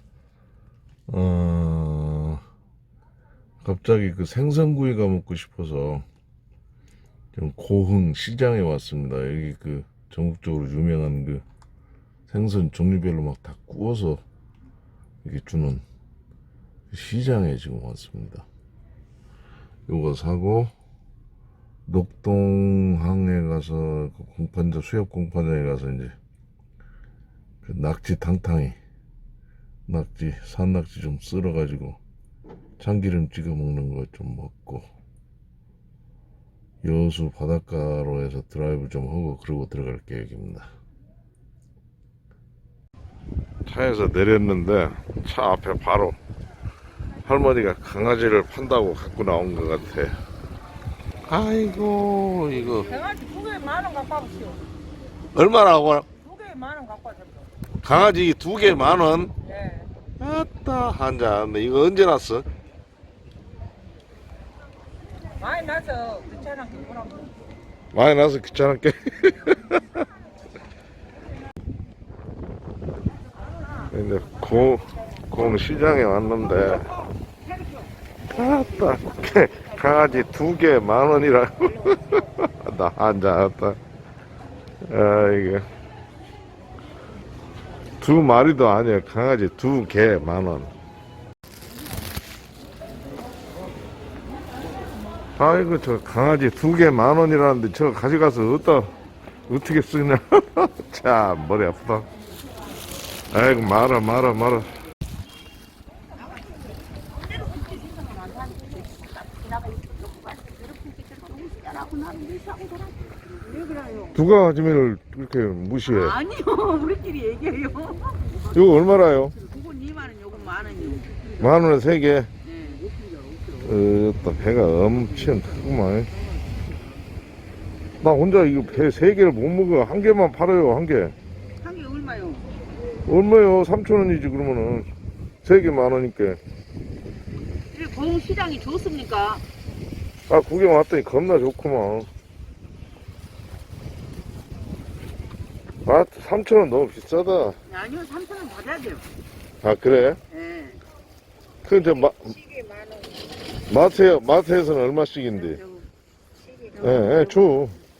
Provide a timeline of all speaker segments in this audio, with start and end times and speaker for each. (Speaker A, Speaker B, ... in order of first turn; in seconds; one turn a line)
Speaker A: 1.1-2.4
Speaker A: 3.6-6.0
Speaker A: 7.3-11.4
Speaker A: 12.3-14.2
Speaker A: 15.2-15.8
Speaker A: 16.9-18.5
Speaker A: 19.9-20.7
Speaker A: 21.9-26.1
Speaker A: 27.6-28.8
Speaker A: 29.9-32.0
Speaker A: 32.8-34.9
Speaker A: 36.8-40.7
Speaker A: 43.7-46.2
Speaker A: 47.2-50.1
Speaker A: 51.3-52.9
Speaker B: 53.0-54.6
Speaker A: 55.4-56.1
Speaker B: 56.3-57.3
Speaker A: 57.8-59.3
Speaker B: 59.5-59.9
Speaker A: 60.2-62.5
Speaker B: 65.4-67.2
Speaker A: 67.9-69.9
Speaker A: 73.9-76.9
Speaker A: 78.3-83.8
Speaker A: 84.8-85.7
Speaker A: 88.0-90.7
Speaker A: 95.4-98.9
Speaker A: 99.5-102.1
Speaker A: 103.3-104.7
Speaker C: 107.3-114.2
Speaker A: 114.1-116.2
Speaker C: 115.9-121.7
Speaker A: 118.5-119.3
Speaker A: 121.4-122.3
Speaker C: 122.4-123.8
Speaker A: 123.6-126.1
Speaker A: 128.0-131.2
Speaker C: 131.6-132.5
Speaker A: 133.1-134.9
Speaker A: 135.4-136.4
Speaker C: 137.7-139.4
Speaker A: 140.3-142.1
Speaker A: 145.9-147.6
Speaker C: 147.7-149.1
Speaker A: 149.6-150.2
Speaker C: 150.3-150.8
Speaker A: 151.7-152.4
Speaker A: 153.7-155.6
Speaker C: 155.3-155.9
Speaker C: 156.6-157.7
Speaker A: 156.8-157.8